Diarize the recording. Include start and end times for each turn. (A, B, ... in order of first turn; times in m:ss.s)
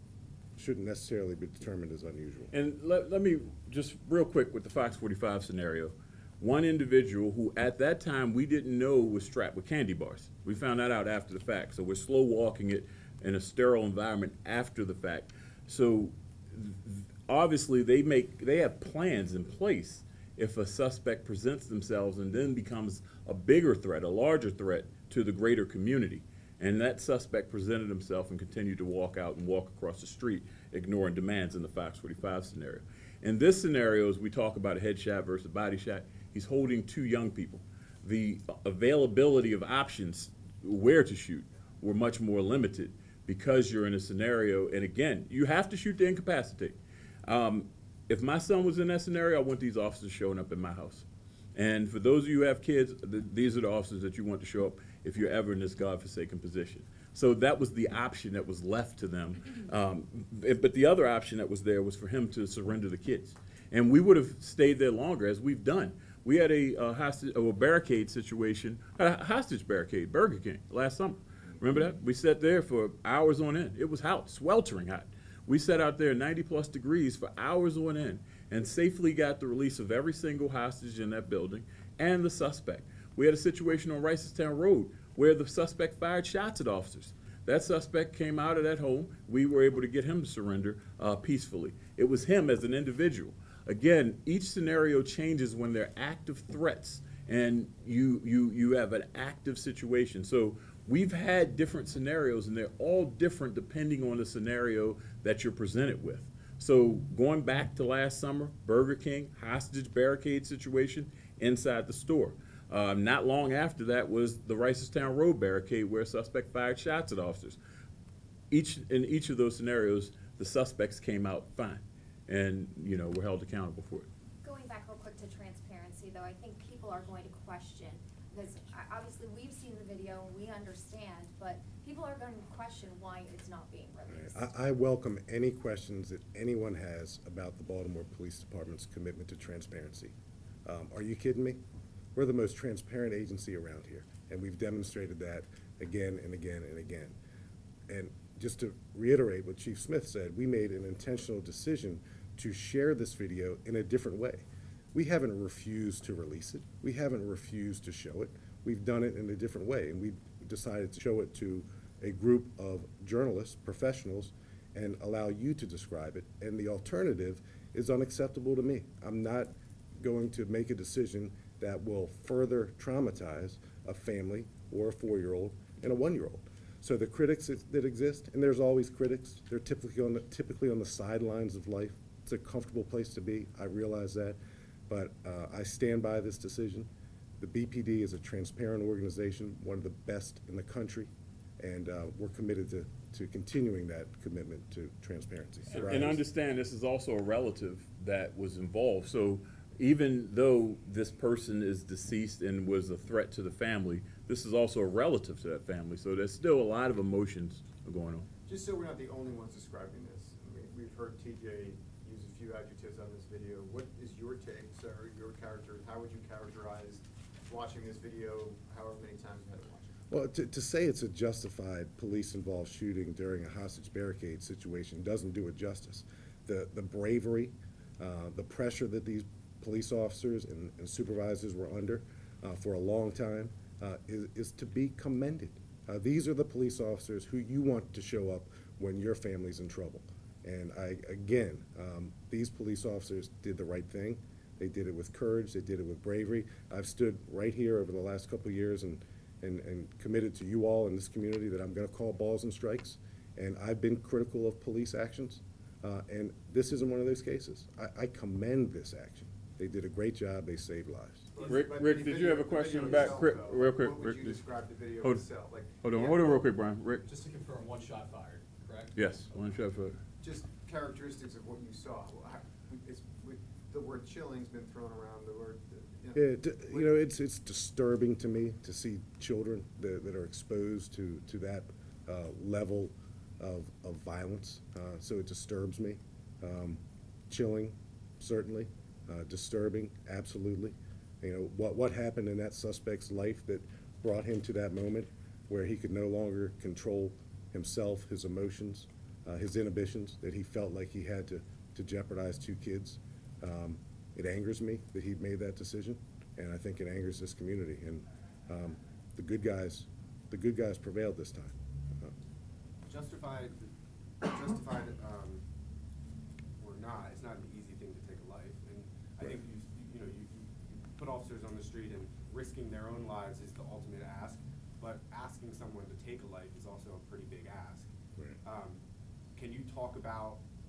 0:00.6-0:02.5 A
0:02.5-1:57.6 B
1:58.5-2:04.1 B
2:04.4-2:14.5 C
2:14.1-2:21.6 A
2:22.1-2:27.2 A
2:27.9-3:06.9 A
3:07.4-3:16.2 A
3:15.7-3:28.3 B
3:28.5-3:40.0 D
3:40.1-4:21.3 A
4:21.3-4:26.4 D
4:21.4-4:24.4 B
4:25.8-4:27.0 B
4:27.0-4:29.2 E
4:28.9-4:30.0 B
4:30.2-4:36.9 D
4:36.1-5:12.1 A
5:12.9-5:15.4 F
5:16.6-5:27.9 F
5:28.4-5:28.8 F
5:29.3-5:30.4 F